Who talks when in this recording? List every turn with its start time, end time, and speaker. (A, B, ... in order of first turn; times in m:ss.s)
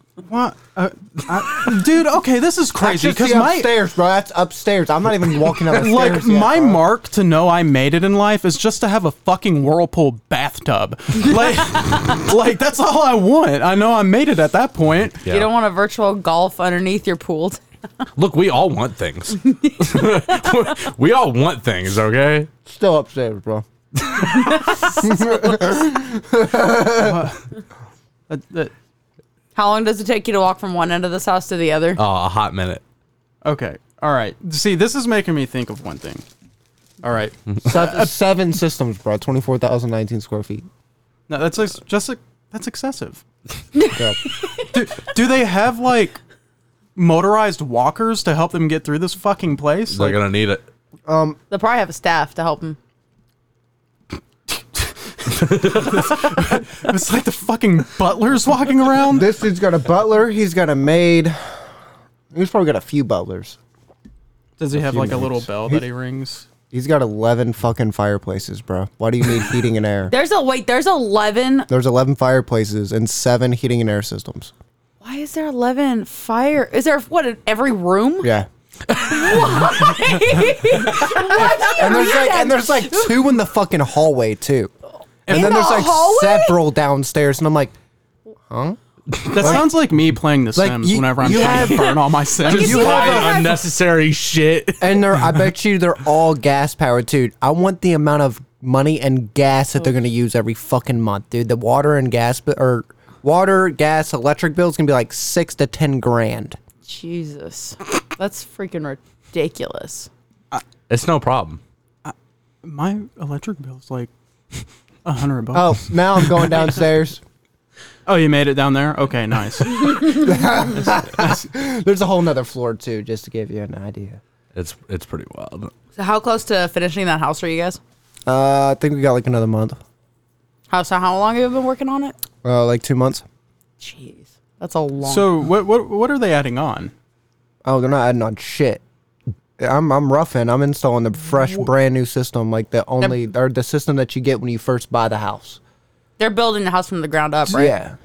0:00.2-0:03.7 A
0:02.8-0:06.8 B
0:05.7-0:15.2 A
0:15.2-0:15.5 C
0:15.2-0:17.6 D
0:18.2-0:22.5 C
0:19.6-0:20.1 D
0:22.6-0:23.6 B
0:24.8-0:27.2 B
0:26.9-0:27.4 A
0:28.3-0:28.7 A
0:29.5-0:32.0 D
0:32.0-0:32.8 C
0:33.4-0:36.2 A
0:37.0-0:38.1 A
0:37.6-0:40.7 B
0:41.3-0:43.2 A
0:43.8-0:44.7 D
0:43.9-0:44.2 B
0:44.7-0:46.2 A
0:47.0-0:50.2 A
0:49.9-0:50.6 C
0:51.0-0:51.4 B
0:51.5-0:52.8 D
0:55.4-0:56.1 C
0:55.6-0:59.3 A
0:59.1-1:01.6 B
1:02.3-1:03.6 B
1:04.6-1:06.5 A
1:04.7-1:05.8 B
1:06.7-1:10.1 B
1:10.1-1:11.7 D
1:11.7-1:14.5 B
1:15.0-1:18.3 D
1:18.2-1:18.5 B
1:19.0-1:23.2 D
1:21.2-1:24.7 B
1:25.2-1:25.7 A
1:25.3-1:27.7 B
1:25.3-1:26.6 D
1:28.5-1:29.7 B
1:29.3-1:33.2 A
1:30.5-1:33.4 B
1:31.2-1:31.9 D
1:32.4-1:33.6 D
1:32.5-1:35.3 C
1:34.8-1:46.6 B
1:46.9-1:50.1 D
1:50.9-1:51.6 C
1:52.0-1:56.6 A
1:55.5-1:57.2 B
1:58.0-2:00.2 A
1:59.9-2:04.2 B
2:04.5-2:05.7 C
2:06.0-2:07.8 D
2:08.2-2:09.8 B
2:10.7-2:12.2 D
2:12.4-2:13.2 B
2:13.8-2:15.3 D
2:15.0-2:16.9 A
2:17.6-2:18.8 B
2:19.6-2:25.6 B
2:26.2-2:27.8 D
2:27.5-2:28.0 B